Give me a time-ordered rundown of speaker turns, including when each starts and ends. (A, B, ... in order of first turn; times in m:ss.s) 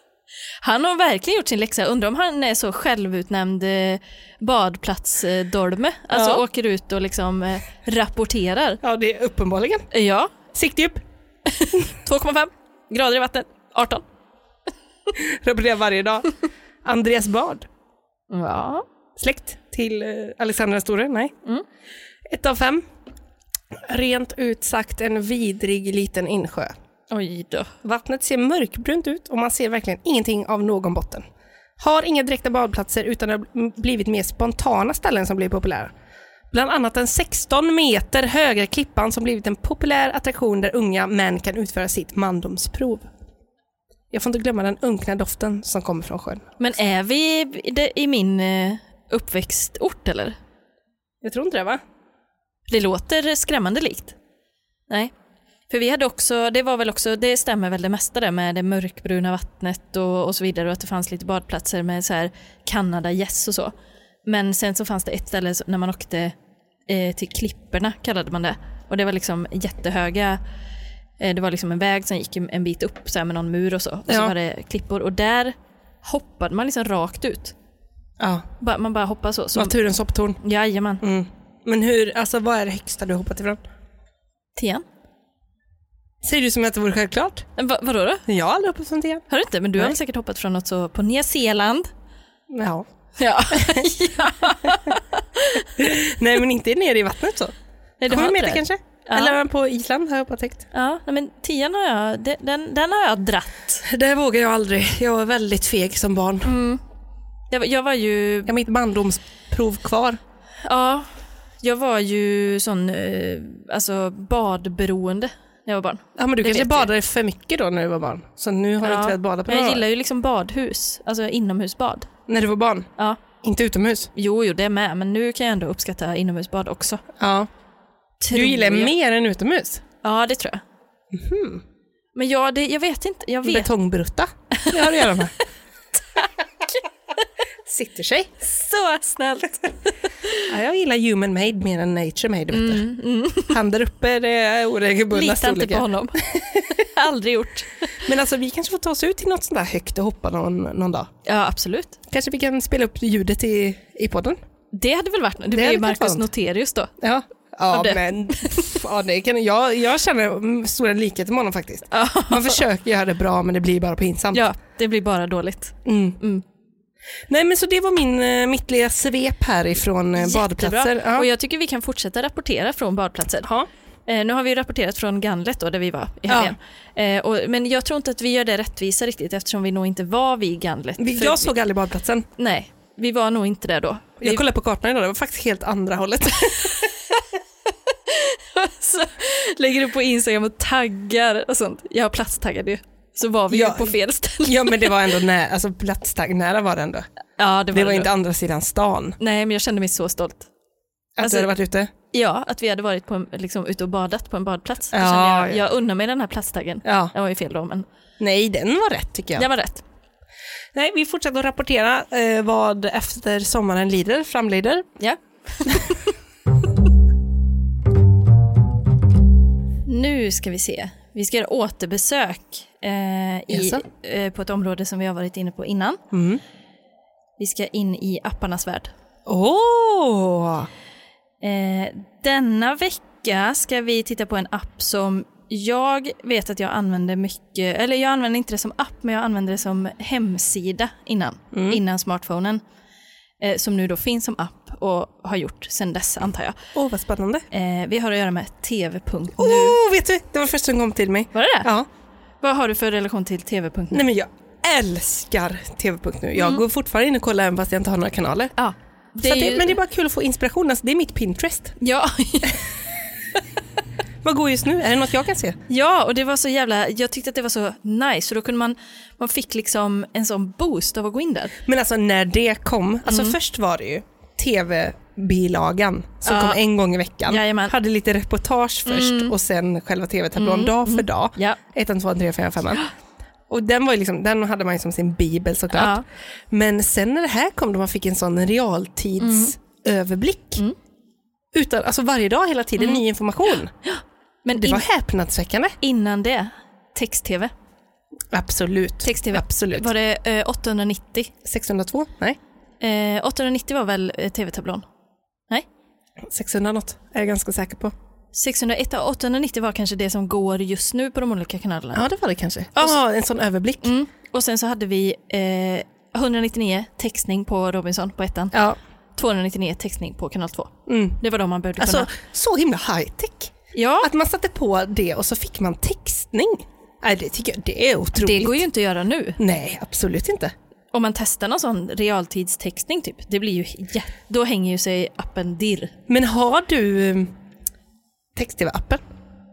0:00.6-0:08.8 A
0:06.1-0:06.4 B
0:08.8-0:09.9 B
0:09.9-0:10.4 A
0:10.5-0:11.0 B
0:11.5-0:14.0 A
0:15.1-0:16.3 B
0:16.8-0:17.7 B
0:18.3-0:18.8 A
0:19.2-0:21.3 B
0:22.3-0:22.8 B
0:23.8-0:26.7 B
0:27.1-0:27.7 A
0:27.8-0:31.2 B
0:31.8-0:35.9 B
0:36.5-0:43.1 B
0:44.1-0:46.5 B
0:46.6-0:50.4 A
0:51.2-0:51.8 B
0:52.7-0:54.2 A
0:55.7-1:03.7 A
1:04.3-1:06.4 A
1:06.9-1:10.4 A
1:11.2-1:17.6 A
1:14.1-1:14.3 B
1:18.2-1:18.5 B
1:18.6-1:19.8 A
1:19.6-1:20.4 B
1:20.4-1:21.0 A
1:21.0-1:23.6 B
1:24.6-1:24.8 A
1:26.2-1:27.5 B
1:27.6-1:28.2 A
1:28.3-1:29.2 B
1:29.3-1:31.9 A
1:32.5-1:32.8 B
1:33.2-1:35.8 A
1:33.5-1:33.9 B
1:35.8-1:37.6 B
1:38.0-1:39.4 A
1:38.1-1:40.7 B
1:40.7-1:43.8 A
1:43.8-1:46.6 B
1:46.4-1:46.8 A
1:47.5-1:48.5 A
1:48.5-1:50.2 B
1:50.6-1:51.1 A
1:51.6-1:56.9 A
1:56.2-1:59.8 B
1:58.8-2:02.1 A
2:02.3-2:04.1 B
2:04.2-2:07.0 A
2:07.2-2:07.5 B
2:08.2-2:08.9 A
2:08.3-2:09.8 B
2:10.0-2:10.6 A
2:11.1-2:11.6 B
2:12.2-2:13.7 A
2:13.4-2:15.3 B
2:14.6-2:15.2 A
2:17.6-2:18.4 B
2:18.4-2:20.4 A
2:20.5-2:22.9 B
2:22.5-2:23.6 A
2:23.5-2:26.6 B
2:25.1-2:27.9 A
2:28.0-2:31.1 B
2:31.2-2:32.0 A
2:32.1-2:34.4 B
2:34.7-2:36.9 A
2:35.5-2:36.3 B
2:37.0-2:44.4 B
2:37.7-2:38.8 A
2:41.9-2:42.6 A
2:44.3-2:46.4 A
2:45.8-2:46.2 B
2:47.3-2:51.3 B
2:50.2-2:53.5 A
2:54.1-3:01.5 A
2:56.3-2:56.6 B
3:01.0-3:02.3 B
3:02.4-3:04.4 A
3:04.2-3:06.9 B
3:08.1-3:15.0 A
3:13.5-3:17.1 B
3:17.4-3:18.1 A
3:17.7-3:19.2 B
3:19.2-3:20.5 A
3:21.2-3:21.9 B
3:21.2-3:21.5 A
3:22.1-3:27.9 A
3:24.9-3:25.6 B
3:26.8-3:27.1 B
3:28.2-3:29.5 B
3:29.4-3:29.8 A
3:30.7-3:34.9 B
3:35.0-3:36.1 A
3:39.9-3:46.0 A
3:43.5-3:43.8 B
3:46.1-3:46.4 B
3:47.4-3:48.9 A
3:49.3-3:50.7 B
3:51.4-4:02.6 A
4:01.5-4:01.8 B
4:03.4-4:06.6 A
4:06.8-4:07.5 B
4:07.5-4:09.8 A
4:09.4-4:11.9 B
4:11.3-4:11.7 A
4:12.4-4:14.0 A
4:13.9-4:18.5 B
4:18.6-4:19.8 A
4:19.2-4:21.8 B
4:21.8-4:22.6 A
4:24.2-4:25.6 B
4:25.7-4:31.6 A
4:31.6-4:42.8 B
4:33.1-4:33.4 A
4:36.3-4:36.6 A
4:37.3-4:37.7 A
4:38.9-4:39.3 A
4:40.4-4:41.6 A
4:43.5-4:50.6 B
4:45.7-4:46.0 A
4:49.2-4:49.6 A
4:51.5-4:53.7 B
4:53.8-4:54.8 A
4:54.6-4:55.8 B
4:55.8-4:57.5 A
4:58.3-4:59.9 B
4:59.0-5:01.3 A
5:01.4-5:02.4 B
5:02.8-5:04.8 A
5:06.2-5:07.9 B
5:08.3-5:12.0 A
5:11.9-5:13.9 B
5:13.8-5:18.6 A
5:19.2-5:22.1 A
5:20.9-5:21.2 B
5:21.8-5:28.6 B
5:23.7-5:24.1 A
5:28.2-5:29.4 A
5:29.4-5:30.5 B
5:30.9-5:36.0 A
5:36.1-5:37.3 B
5:38.4-5:39.0 B